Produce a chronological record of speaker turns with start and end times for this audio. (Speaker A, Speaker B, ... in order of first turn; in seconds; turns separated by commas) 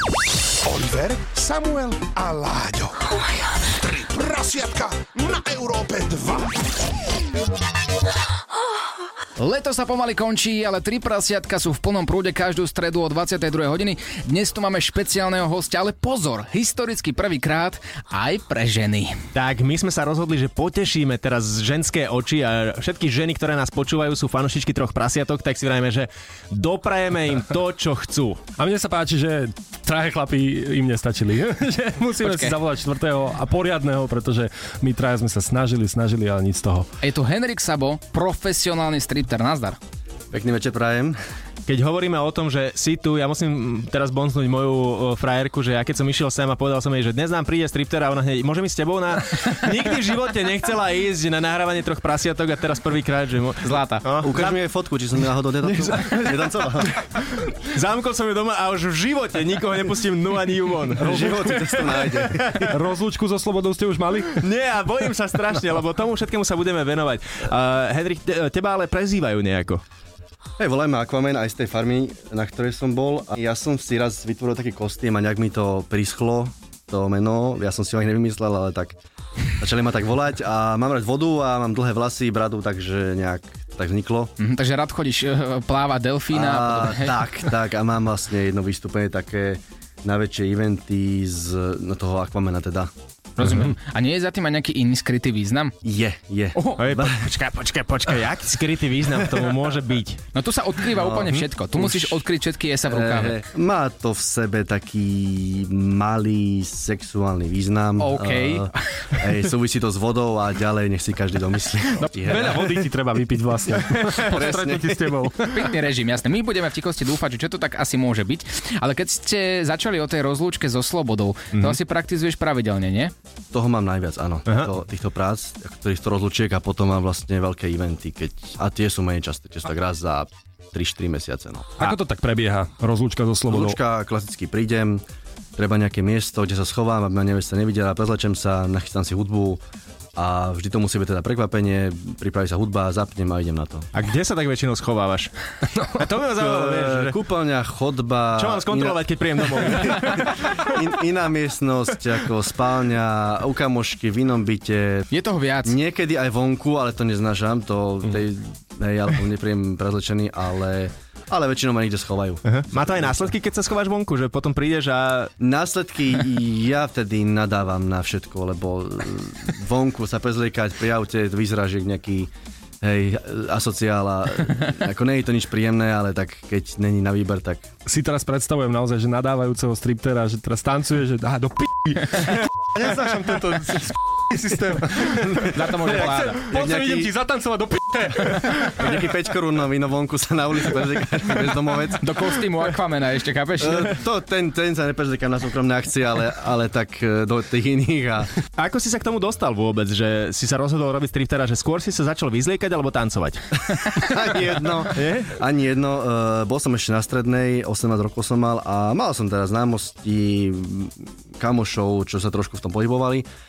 Speaker A: 0.6-3.1, Speaker A: 3.7-6.6, Speaker B: 9.4-19.2, Speaker C: 19.3-28.4, Speaker D: 28.6-36.9, Speaker B: 32.2-32.5, Speaker B: 37.0-39.8, Speaker E: 40.3-41.2, Speaker C: 41.7-54.5, Speaker B: 53.6-54.0, Speaker E: 54.2-56.9, Speaker D: 55.8-56.3, Speaker C: 57.4-62.7, Speaker D: 61.0-61.7, Speaker E: 61.0-62.8, Speaker D: 62.7-64.5, Speaker C: 64.3-69.8, Speaker E: 70.6-79.0, Speaker E: 79.6-84.3, Speaker B: 84.4-87.3, Speaker E: 86.3-93.6, Speaker B: 93.4-95.7, Speaker E: 95.8-97.3, Speaker C: 96.8-100.2, Speaker B: 100.3-103.4, Speaker E: 100.9-102.2, Speaker E: 102.9-112.8, Speaker B: 108.0-108.8, Speaker B: 111.9-112.3, Speaker D: 112.2-115.8, Speaker E: 114.2-115.2, Speaker B: 115.5-123.1, Speaker C: 121.5-121.8, Speaker E: 123.5-132.0, Speaker D: 131.8-133.8, Speaker E: 133.5-135.0, Speaker E: 135.6-139.6, Speaker E: 140.1-143.9, Speaker C: 143.9-145.3, Speaker C: 145.8-147.2, Speaker E: 146.3-155.0, Speaker C: 148.4-150.7, Speaker B: 155.1-155.7, Speaker E: 155.6-163.2, Speaker C: 162.4-165.3, Speaker E: 165.4-177.7, Speaker D: 177.8-189.0, Speaker E: 185.3-187.1, Speaker B: 185.5-186.4, Speaker E: 188.6-192.1, Speaker B: 192.0-194.0, Speaker E: 193.6-198.3, Speaker C: 198.6-205.3, Speaker E: 203.7-213.2